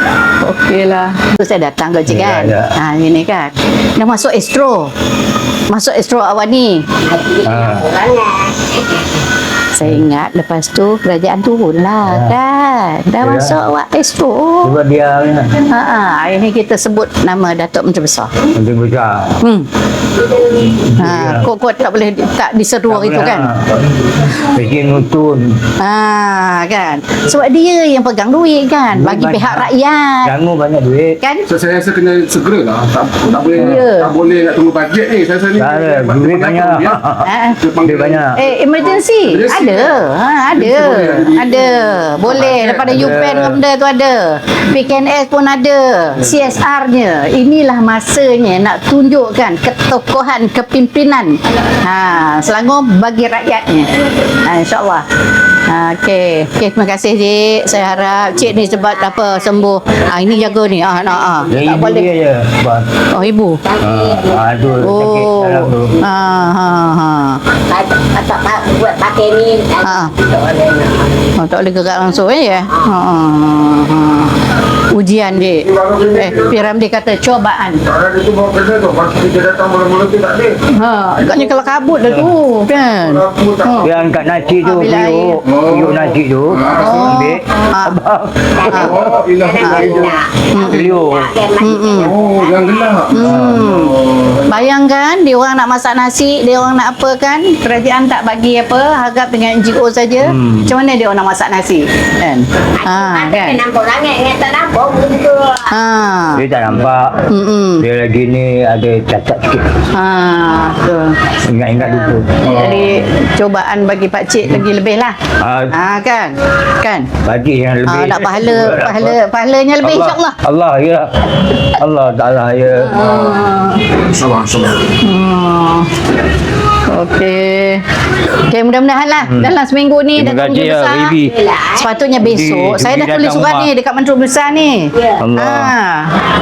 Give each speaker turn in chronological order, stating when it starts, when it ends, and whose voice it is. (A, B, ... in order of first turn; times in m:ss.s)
0:00.4-0:04.9 A
0:02.1-0:02.7 B
0:05.7-0:06.8 A
0:07.0-0:09.0 C
0:07.4-0:07.8 B
0:09.7-0:14.8 A
0:12.0-0:12.3 B
0:13.2-0:13.6 B
0:14.6-0:15.5 B
0:15.6-0:18.3 A
0:18.5-0:19.4 B
0:19.4-0:19.7 A
0:20.4-0:21.4 B
0:21.0-0:23.5 A
0:22.9-0:25.5 B
0:25.8-0:30.3 A
0:28.9-0:29.7 B
0:30.2-0:31.2 B
0:31.2-0:31.4 A
0:31.5-0:37.0 D
0:33.5-0:34.1 A
0:33.6-0:33.8 B
0:35.6-0:37.3 B
0:37.2-0:37.6 A
0:37.6-0:38.3 D
0:37.8-0:38.3 B
0:38.3-0:55.0 A
0:38.8-0:43.2 D
0:42.8-0:43.6 B
0:55.7-1:02.1 A
0:59.0-1:01.4 C
1:01.5-1:02.9 B
1:03.1-1:03.6 A
1:03.6-1:04.4 C
1:03.8-1:05.9 B
1:04.8-1:07.4 A
1:07.7-1:11.2 C
1:09.8-1:10.1 A
1:11.4-1:14.3 A
1:14.9-1:17.8 A
1:15.6-1:16.5 E
1:17.8-1:20.5 E
1:20.7-1:23.9 A
1:22.0-1:22.3 B
1:22.9-1:24.0 E
1:23.8-1:28.8 B
1:24.6-1:25.4 A
1:25.4-1:27.1 D
1:26.7-1:28.0 A
1:28.5-1:33.0 C
1:28.7-1:29.0 A
1:28.7-1:30.2 D
1:29.6-1:30.8 A
1:30.6-1:31.3 B
1:31.6-1:32.1 A
1:31.9-1:34.6 D
1:33.1-1:33.9 A
1:33.2-1:33.6 B
1:34.5-1:43.6 A
1:40.2-1:40.7 B
1:42.8-1:45.7 C
1:45.7-1:46.4 A
1:46.3-1:47.2 B
1:47.3-1:47.8 A
1:47.8-1:49.7 B
1:49.9-1:51.2 A
1:51.5-1:52.3 B
1:51.7-1:55.2 A
1:52.4-1:53.0 D
1:55.4-1:55.7 B
1:55.7-1:57.1 A
1:57.2-1:59.2 B
1:57.9-2:00.4 A
1:59.8-2:03.0 B
2:02.7-2:03.8 A
2:02.9-2:03.4 D
2:04.0-2:04.9 D
2:05.0-2:05.9 A
2:06.9-2:11.2 A
2:09.2-2:09.5 B
2:10.2-2:11.4 B
2:11.3-2:11.8 C
2:11.7-2:16.1 A
2:12.2-2:13.7 B
2:15.2-2:15.7 B